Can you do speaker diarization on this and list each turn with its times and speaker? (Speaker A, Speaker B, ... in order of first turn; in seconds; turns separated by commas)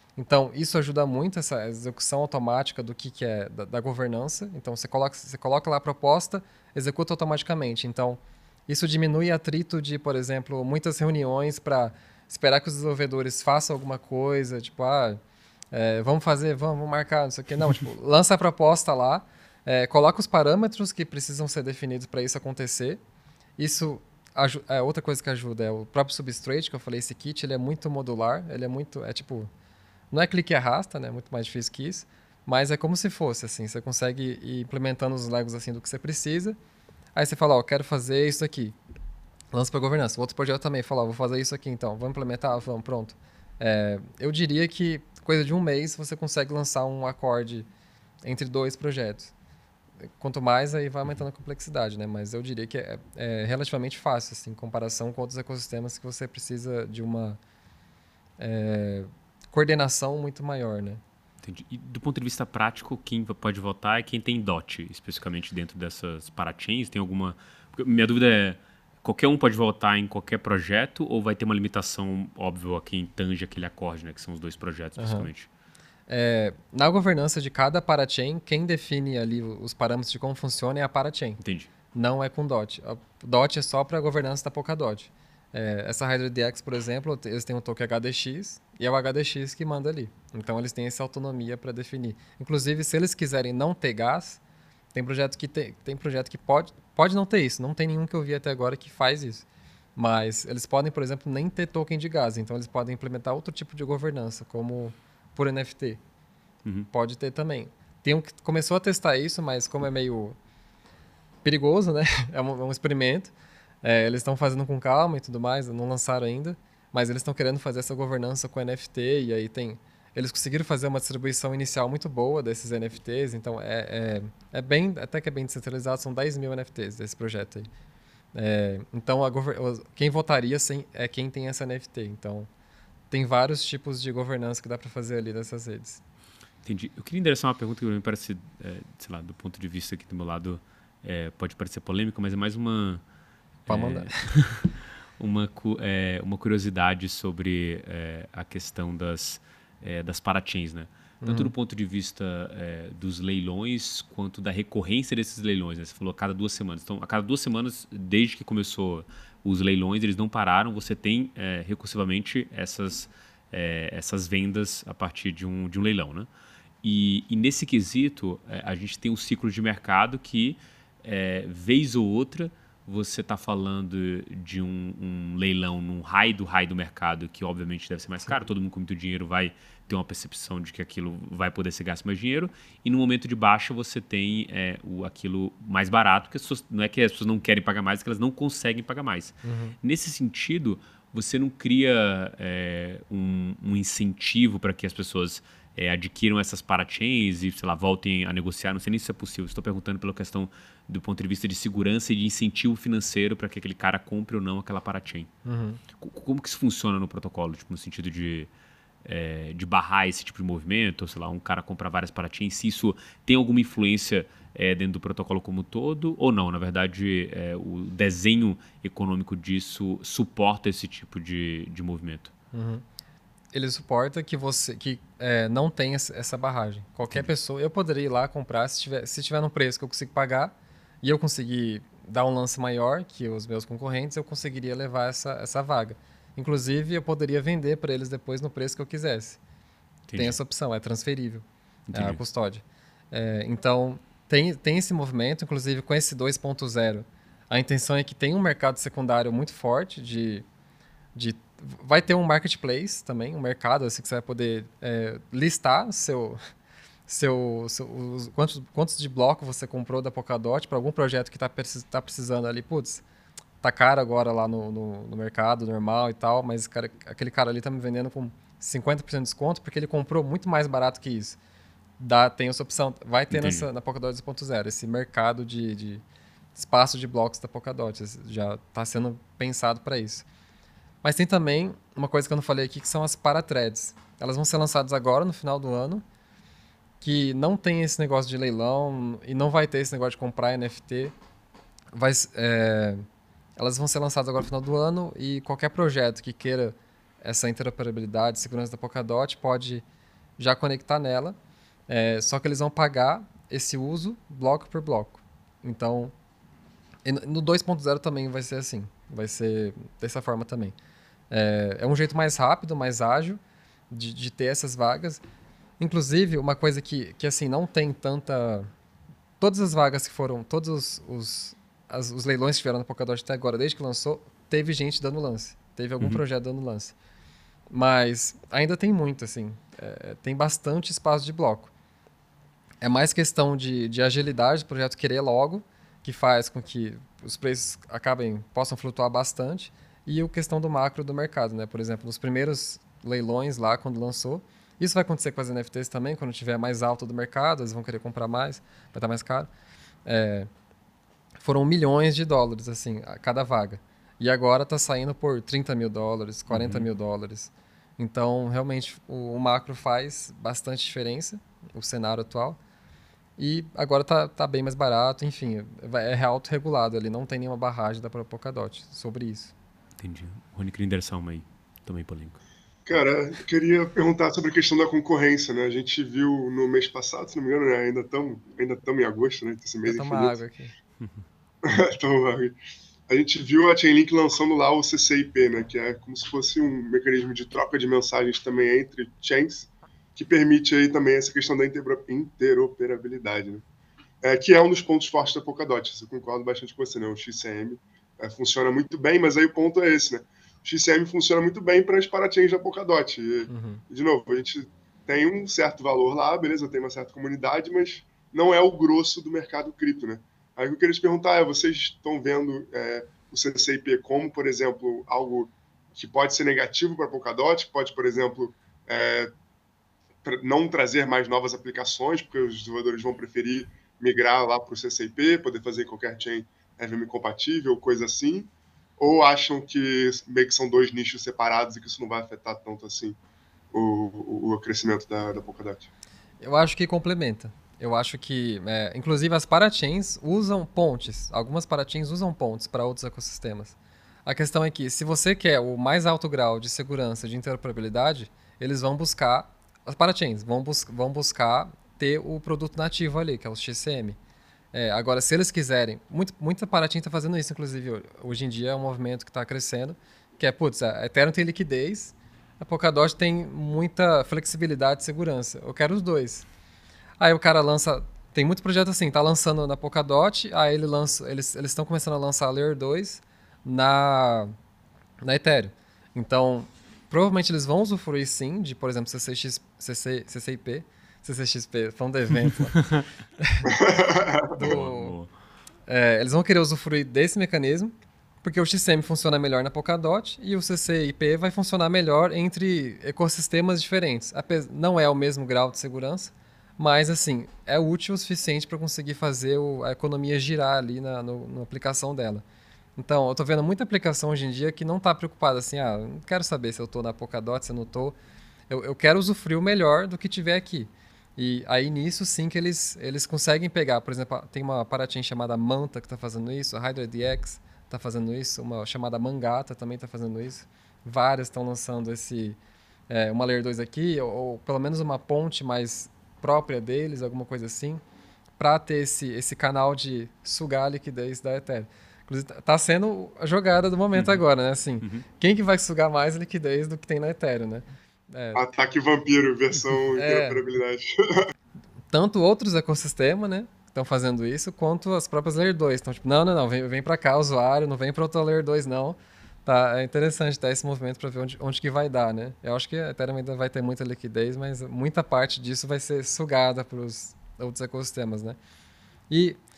Speaker A: 0.1-15.2, Speaker A: 15.7-23.0, Speaker A: 23.6-29.5, Speaker A: 30.1-36.6, Speaker A: 37.1-38.7, Speaker A: 39.5-47.7, Speaker A: 48.2-49.3, Speaker A: 50.2-57.4, Speaker A: 58.4-61.0, Speaker B: 61.4-75.5, Speaker A: 75.0-75.3, Speaker A: 76.1-81.4, Speaker B: 81.4-81.7, Speaker A: 81.9-94.4, Speaker A: 94.9-106.0, Speaker A: 106.9-110.3, Speaker A: 111.4-127.7, Speaker A: 128.3-132.5, Speaker A: 133.1-136.0, Speaker B: 136.6-143.0, Speaker B: 143.7-166.3, Speaker A: 143.7-144.2, Speaker A: 151.2-151.5, Speaker B: 166.8-205.3, Speaker A: 189.4-189.7, Speaker A: 205.4-205.8, Speaker B: 206.0-208.5, Speaker B: 209.0-222.3, Speaker A: 222.5-222.8, Speaker A: 223.5-239.4, Speaker B: 240.1-240.4, Speaker A: 240.2-250.4, Speaker B: 241.9-242.2, Speaker A: 251.1-256.4, Speaker A: 257.1-263.0, Speaker A: 263.6-271.4, Speaker A: 272.0-276.0, Speaker B: 273.3-273.7, Speaker A: 276.5-280.2, Speaker A: 281.0-286.0, Speaker A: 287.0-291.1, Speaker A: 291.9-293.0, Speaker A: 293.6-299.8, Speaker A: 300.4-301.4, Speaker A: 301.9-306.1, Speaker A: 307.0-310.7, Speaker A: 311.3-313.4, Speaker A: 313.9-315.2, Speaker A: 315.8-318.7, Speaker A: 319.4-326.9, Speaker A: 327.7-331.7, Speaker A: 332.8-349.5, Speaker A: 350.1-350.5, Speaker A: 351.4-362.6, Speaker B: 356.5-356.9, Speaker A: 363.4-369.5, Speaker B: 370.0-372.4, Speaker C: 372.9-380.4, Speaker A: 379.8-380.7, Speaker C: 381.6-382.6, Speaker C: 383.1-393.6, Speaker C: 394.2-419.3, Speaker A: 403.5-403.8, Speaker C: 420.2-433.2, Speaker C: 433.7-435.9, Speaker A: 436.4-454.2, Speaker A: 454.7-466.5, Speaker A: 467.2-474.5, Speaker A: 475.2-482.8, Speaker B: 482.7-483.1, Speaker A: 483.4-483.7, Speaker C: 483.6-484.6, Speaker A: 484.5-485.1, Speaker B: 484.6-485.3, Speaker A: 485.9-502.4, Speaker A: 503.0-508.1, Speaker A: 508.7-522.6, Speaker A: 523.1-528.0, Speaker A: 528.6-538.6, Speaker B: 534.1-534.4, Speaker C: 538.5-541.5, Speaker A: 540.2-540.6, Speaker A: 542.1-558.6, Speaker A: 559.3-559.6